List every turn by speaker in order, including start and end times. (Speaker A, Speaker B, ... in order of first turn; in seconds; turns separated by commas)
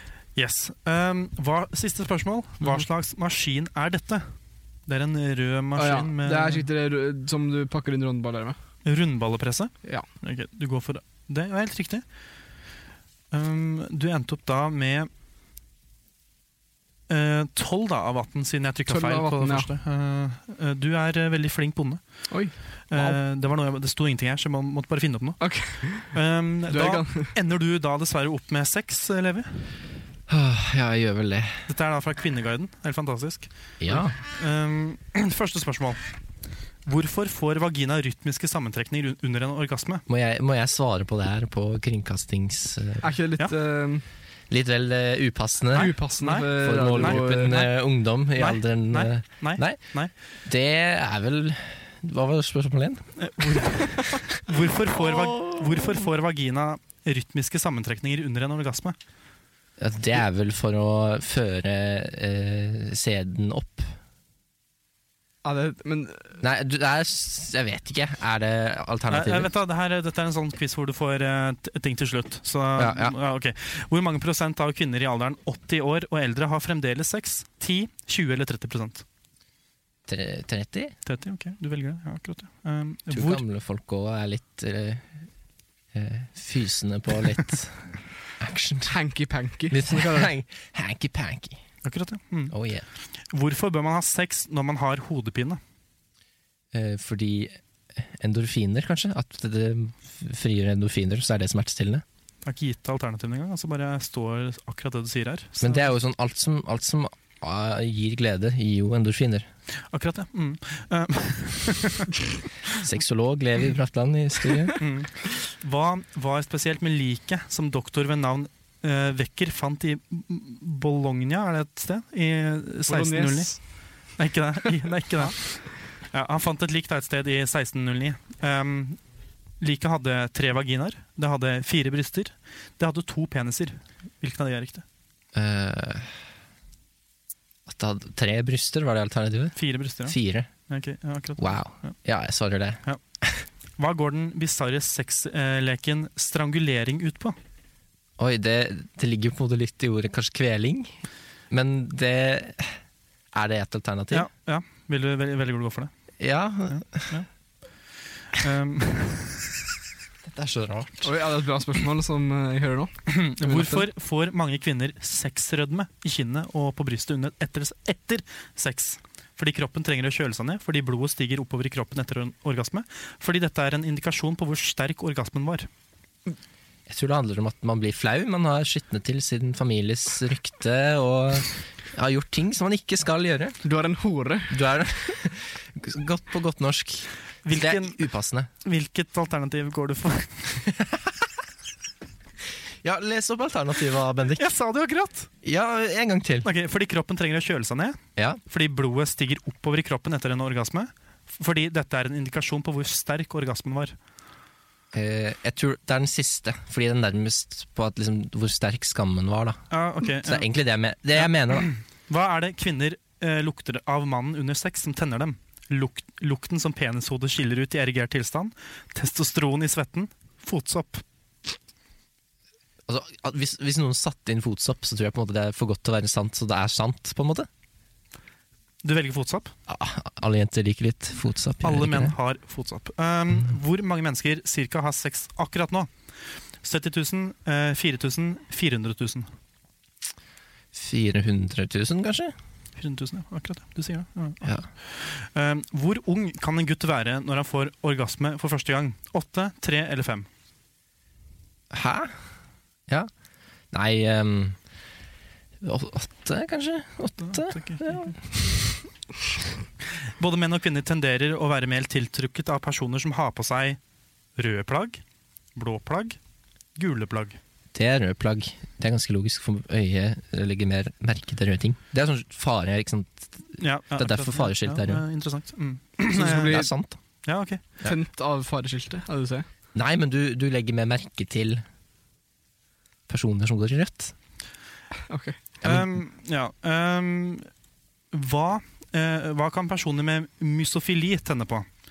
Speaker A: 0.3-4.3, Speaker B: 2.6-2.9, Speaker A: 4.9-6.6, Speaker B: 5.8-8.6, Speaker A: 8.8-12.0, Speaker A: 13.3-15.1, Speaker A: 17.1-22.3, Speaker B: 18.9-19.7, Speaker B: 22.3-23.2, Speaker A: 22.9-29.5, Speaker B: 25.4-26.1, Speaker B: 26.7-27.3, Speaker C: 30.3-31.7, Speaker A: 31.7-33.7, Speaker C: 33.8-34.1, Speaker A: 34.3-36.0, Speaker A: 36.8-40.0, Speaker C: 40.1-43.1, Speaker B: 43.0-44.0, Speaker C: 44.5-49.8, Speaker B: 45.7-47.6, Speaker A: 45.7-50.1, Speaker C: 50.4-54.4, Speaker A: 53.2-59.0, Speaker C: 55.1-55.6, Speaker C: 59.8-63.9, Speaker B: 65.4-66.4, Speaker C: 66.4-69.5, Speaker A: 69.1-79.0, Speaker C: 72.8-73.2, Speaker C: 80.1-80.9, Speaker A: 81.0-83.4, Speaker C: 83.1-85.3, Speaker C: 85.9-88.9, Speaker B: 88.9-90.3, Speaker C: 89.7-91.6, Speaker A: 91.8-92.5, Speaker C: 92.5-92.9, Speaker A: 93.3-95.6, Speaker C: 96.7-102.0, Speaker A: 102.4-105.9, Speaker C: 105.6-109.5, Speaker A: 109.9-112.2, Speaker C: 112.8-114.8, Speaker A: 114.8-129.0, Speaker B: 122.9-123.6, Speaker A: 129.6-134.8, Speaker C: 135.3-136.1, Speaker C: 137.7-140.5, Speaker A: 139.6-140.2, Speaker A: 140.7-141.9, Speaker C: 141.4-143.4, Speaker A: 143.8-147.4, Speaker C: 148.2-152.8, Speaker C: 153.3-154.3, Speaker A: 154.1-155.9, Speaker C: 156.2-157.1, Speaker A: 156.7-157.3, Speaker A: 158.3-159.5, Speaker C: 160.2-161.1, Speaker B: 161.0-163.8, Speaker A: 163.1-175.7, Speaker C: 176.9-183.6, Speaker B: 183.6-184.5, Speaker C: 184.5-188.5, Speaker A: 187.4-188.1, Speaker A: 188.6-190.6, Speaker C: 190.8-191.2, Speaker C: 192.8-194.4, Speaker A: 194.3-195.3, Speaker C: 195.4-196.5, Speaker A: 196.4-203.9, Speaker C: 204.9-211.7, Speaker A: 209.7-210.5, Speaker A: 211.2-221.0, Speaker C: 222.8-227.5, Speaker A: 228.8-229.5, Speaker C: 229.7-232.2, Speaker A: 231.6-235.9, Speaker A: 236.6-239.3, Speaker C: 240.7-242.3, Speaker A: 242.8-250.3, Speaker C: 244.4-244.7, Speaker C: 251.7-252.2, Speaker C: 253.7-254.6, Speaker C: 255.6-258.6, Speaker A: 257.2-258.1, Speaker A: 260.2-263.8, Speaker A: 264.4-265.0, Speaker A: 265.6-266.2, Speaker A: 266.8-267.4, Speaker C: 267.7-275.0, Speaker A: 273.6-276.7, Speaker B: 276.1-276.7, Speaker C: 276.3-277.0, Speaker A: 277.2-277.6, Speaker B: 277.8-279.5, Speaker C: 279.7-281.6, Speaker C: 283.1-284.1, Speaker B: 285.1-285.4, Speaker C: 285.6-286.0, Speaker A: 285.6-287.5, Speaker A: 288.1-291.7